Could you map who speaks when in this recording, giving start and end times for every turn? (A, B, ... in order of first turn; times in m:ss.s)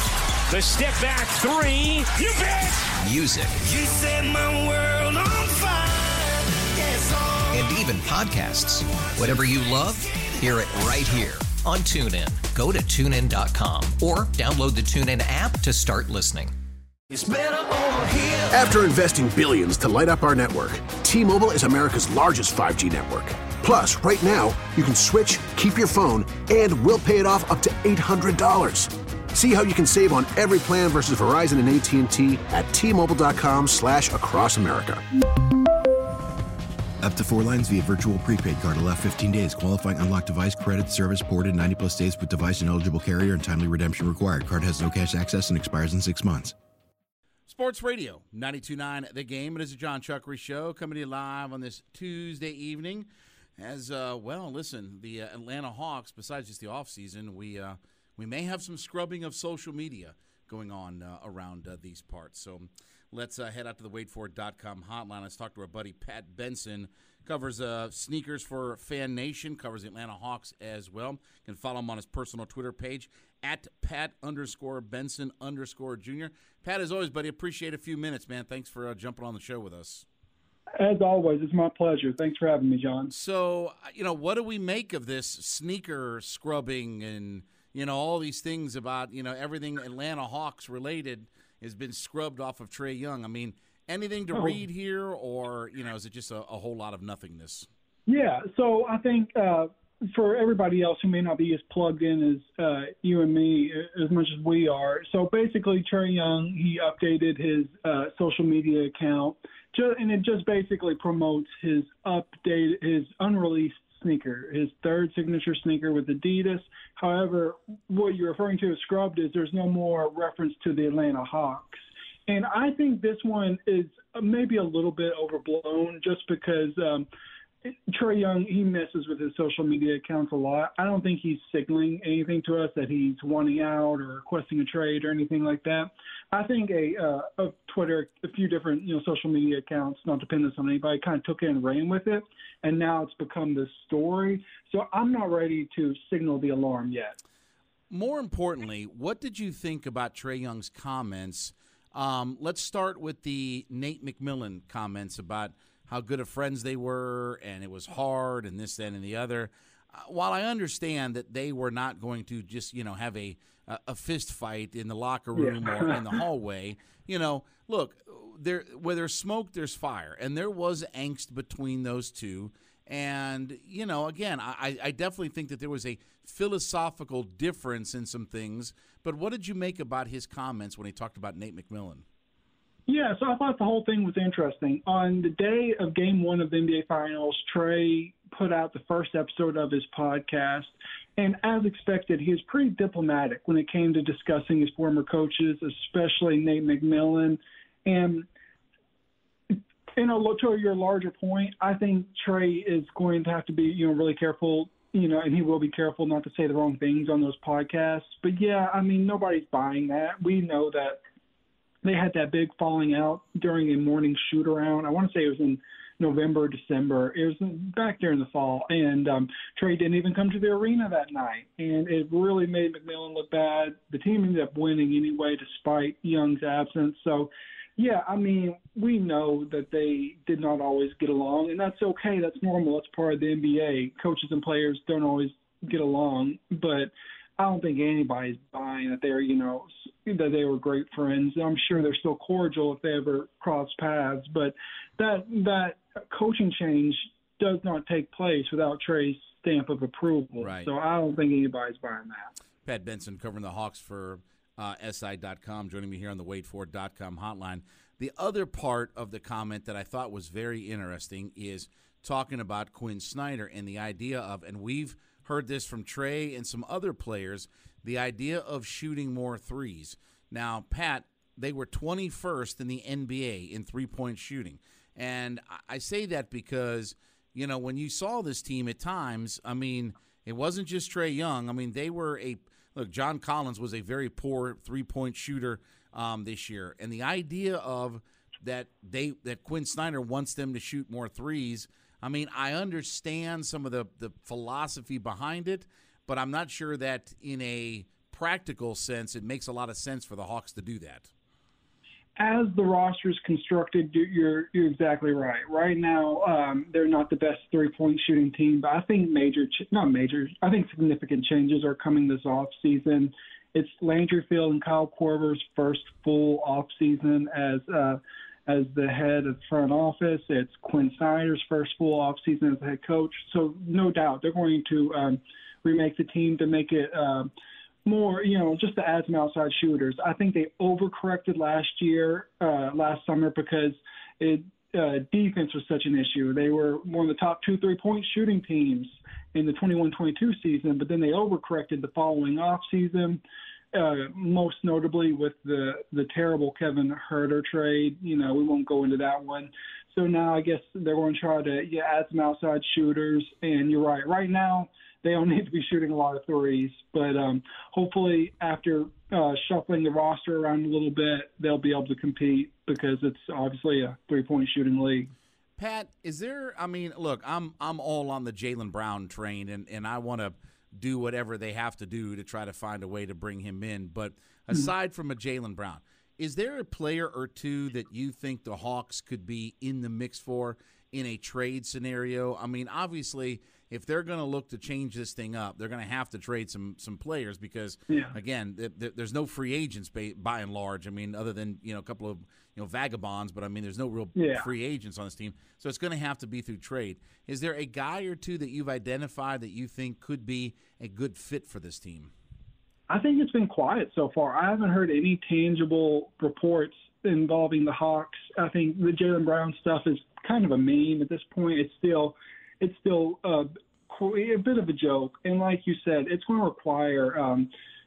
0:00.5-0:02.9 A
0:03.1-0:03.6 B
0:03.7-0:07.3 C
0:07.5-0:16.5 B
0:18.5-0:35.0 D
0:37.0-0:46.6 E
0:47.5-1:20.0 F
1:20.8-1:23.1 G
1:23.1-1:37.7 F
1:34.3-1:34.6 G
1:38.1-2:07.1 G
2:07.6-2:27.2 G
2:27.9-3:02.0 F
2:45.3-2:46.1 G
3:02.9-3:18.3 G
3:19.5-3:31.0 G
3:31.8-4:12.3 G
4:10.4-4:10.7 F
4:12.6-5:01.1 F
5:02.2-5:27.3 G
5:27.8-5:43.2 G
5:43.7-6:05.1 G
6:05.6-6:42.1 F
6:34.2-6:34.5 G
6:42.9-6:57.5 G